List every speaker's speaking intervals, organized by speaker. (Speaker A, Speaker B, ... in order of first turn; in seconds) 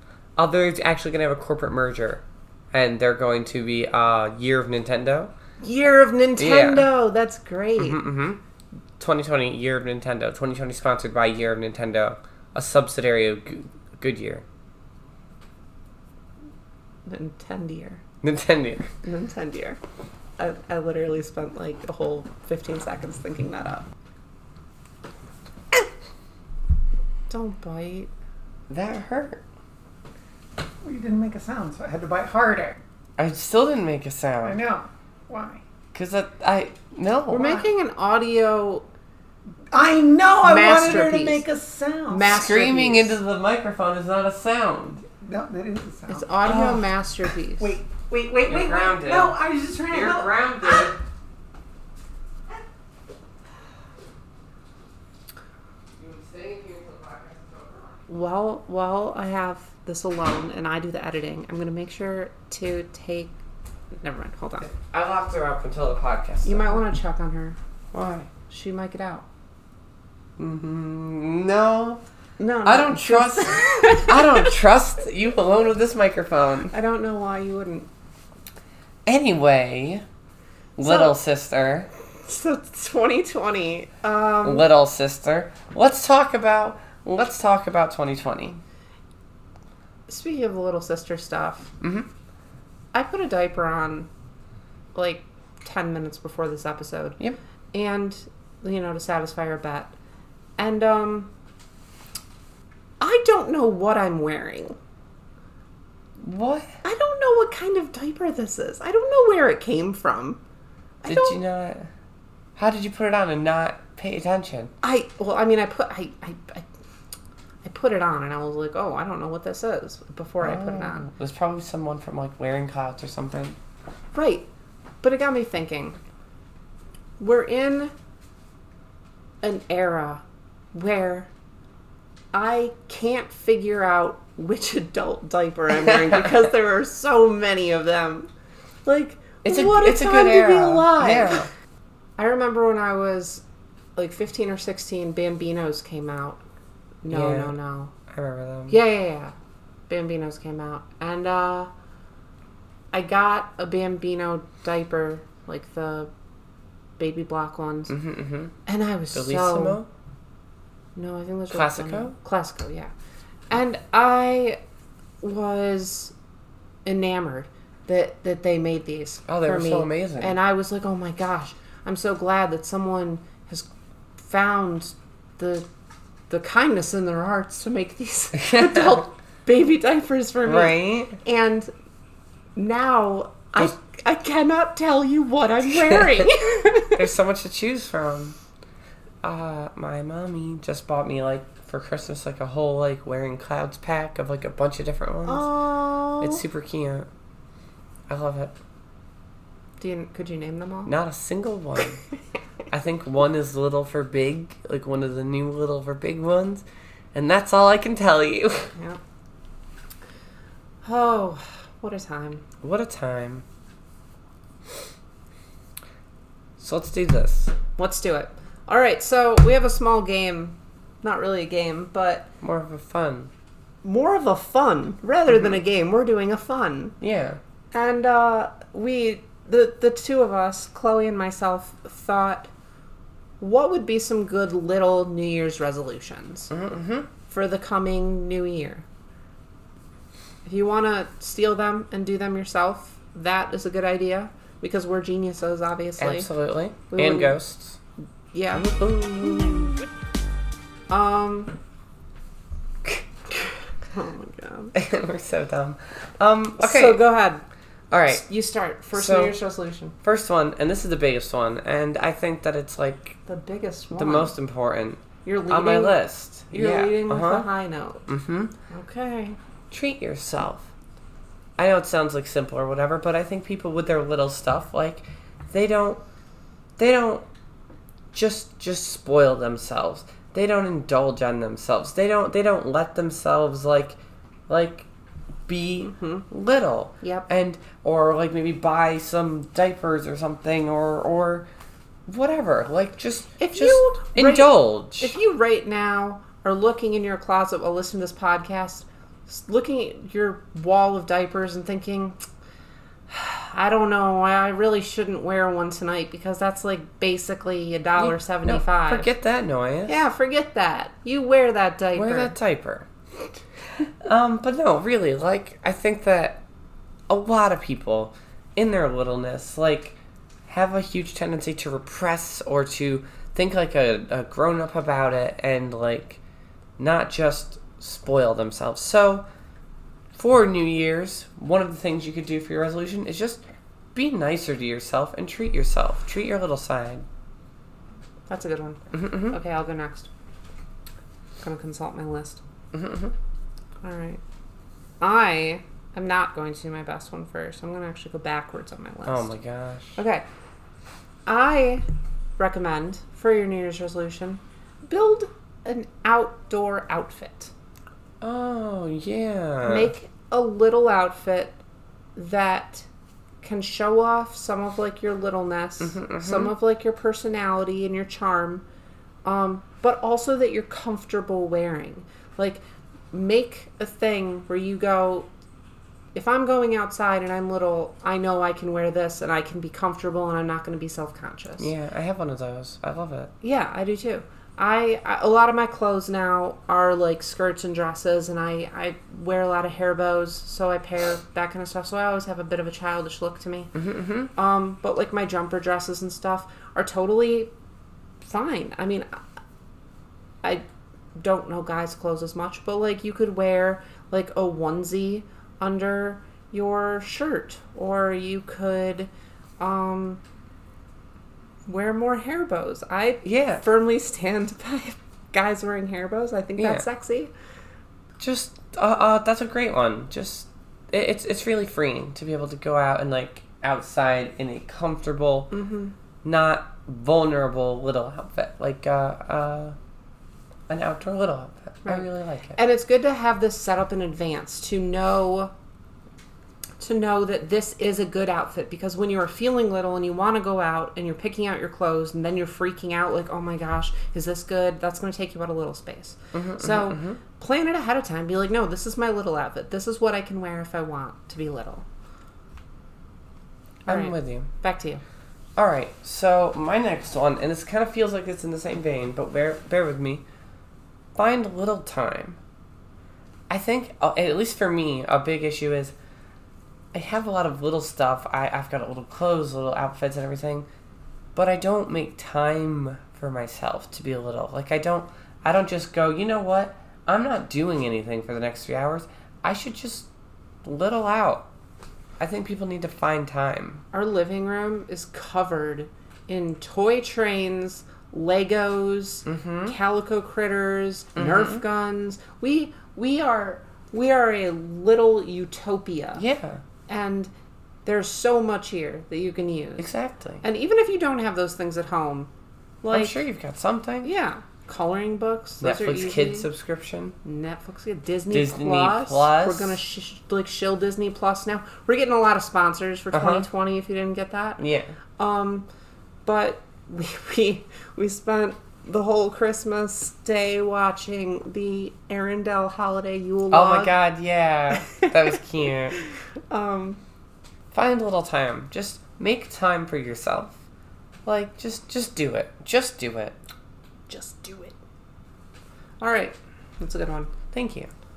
Speaker A: 0.4-5.3, 6.4-6.9, 7.8-8.4, 9.0-14.4, 18.2-18.9, 28.7-29.4, 33.2-34.6, 35.9-37.6, 42.3-45.0, 46.5-46.8, 48.5-51.0, 56.0-58.0, 64.6-66.8, 67.9-68.3, 70.4-72.0, 72.6-76.7, 79.0-80.0, 80.8-81.9, 84.4-88.6, 91.8-92.1, 106.2-106.8, 111.0-111.9, 112.5-114.7, 120.4-123.6, 135.9-136.3, 139.4-141.5, 147.1-147.6, 148.1-148.8, 157.9-158.5, 159.1-159.9, 161.5-162.1, 169.3-170.3, 178.4-179.0, 180.4-181.2, 185.9-186.3, 186.9-188.4, 189.2-195.5, 196.2-197.1, 198.1-198.5, 200.8-202.0, 202.7-208.7, 212.6-213.4, 216.6-217.5, 222.4-223.3, 227.0-227.4, 236.5-237.1, 246.0-247.8, 248.5-249.8, 254.7-257.1, 257.9-258.2, 258.9-259.4, 260.0-263.2, 263.9-267.5, 268.1-268.5, 269.7-270.7, 271.6-276.0, 276.8-277.2, 278.1-284.0, 284.5-284.9, 285.5-291.5, 292.1-295.1, 308.0-310.0, 311.9-312.9, 314.0-316.4, 317.1-326.2, 326.8-329.2, 330.1-337.1, 338.9-339.4, 342.7-343.1, 349.1-350.0, 358.2-359.9, 365.8-366.5, 381.6-383.3, 393.7-394.3, 413.2-413.6, 416.6-416.8, 418.2-425.5, 426.2-429.8, 430.7-432.6, 446.3-447.2, 453.9-454.5, 455.6-460.2, 461.1-462.4, 463.5-465.9, 466.9-470.7, 471.3-480.1, 480.6-481.5, 482.2-483.8, 489.2-489.7, 491.1-491.6, 496.2-496.6, 499.8-500.4, 502.9-504.1, 505.6-507.1, 508.3-509.8, 513.1-513.5, 514.6-514.9, 523.5-526.0, 527.7-530.6, 531.2-533.4, 537.5-537.9
Speaker B: 5.6-8.0, 17.1-18.0, 19.0-19.8, 20.4-23.9, 27.3-28.1, 37.3-38.9, 40.4-41.4, 42.1-43.2, 46.1-47.7, 58.1-63.3, 64.0-64.7, 66.4-67.6, 68.4-69.2, 72.4-74.5, 76.7-77.9, 80.8-81.1, 82.2-84.7, 90.1-91.7, 92.9-94.1, 94.9-97.2, 97.7-99.9, 100.6-101.3, 103.0-104.8, 106.8-110.4, 111.0-111.4, 114.8-116.6, 117.6-121.1, 124.1-124.5, 125.0-126.0, 127.2-127.9, 129.4-131.3, 132.3-138.3, 138.8-141.5, 142.2-143.4, 143.9-146.4, 147.0-147.9, 148.7-149.3, 149.9-151.7, 152.9-156.1, 157.0-157.9, 158.7-159.8, 160.9-162.9, 163.5-164.6, 165.2-166.1, 166.8-175.7, 176.3-181.7, 182.6-187.0, 195.2-196.4, 199.8-200.9, 210.8-212.4, 217.8-222.3, 223.8-226.9, 227.7-232.5, 233.4-236.5, 237.3-238.8, 240.4-246.3, 246.9-247.4, 248.3-249.7, 250.9-251.6, 253.8-254.7, 256.6-257.4, 258.1-259.9, 263.2-264.3, 265.2-268.1, 268.7-269.4, 285.8-286.2, 287.0-287.3, 293.4-302.2, 303.1-309.1, 309.9-312.4, 338.3-340.1, 341.4-342.4, 343.8-344.2, 345.0-349.3, 350.0-350.2, 351.2-351.8, 352.4-357.5, 359.6-361.6, 362.1-362.9, 363.4-368.6, 369.2-375.3, 376.1-381.7, 383.4-393.7, 394.3-397.5, 398.2-399.1, 401.1-410.2, 411.7-417.3, 425.5-425.9, 431.8-435.5, 436.8-451.8, 453.9-455.0, 483.9-496.2, 496.9-497.3, 497.8-499.9, 500.4-502.3, 502.8-503.2, 504.0-506.5, 507.2-514.6, 515.2-515.7, 516.2-524.0, 524.8-525.4, 525.9-527.0, 534.1-534.8, 536.0-537.3
Speaker C: 30.8-32.8, 34.4-35.6, 39.7-42.4, 45.2-46.8, 47.6-50.9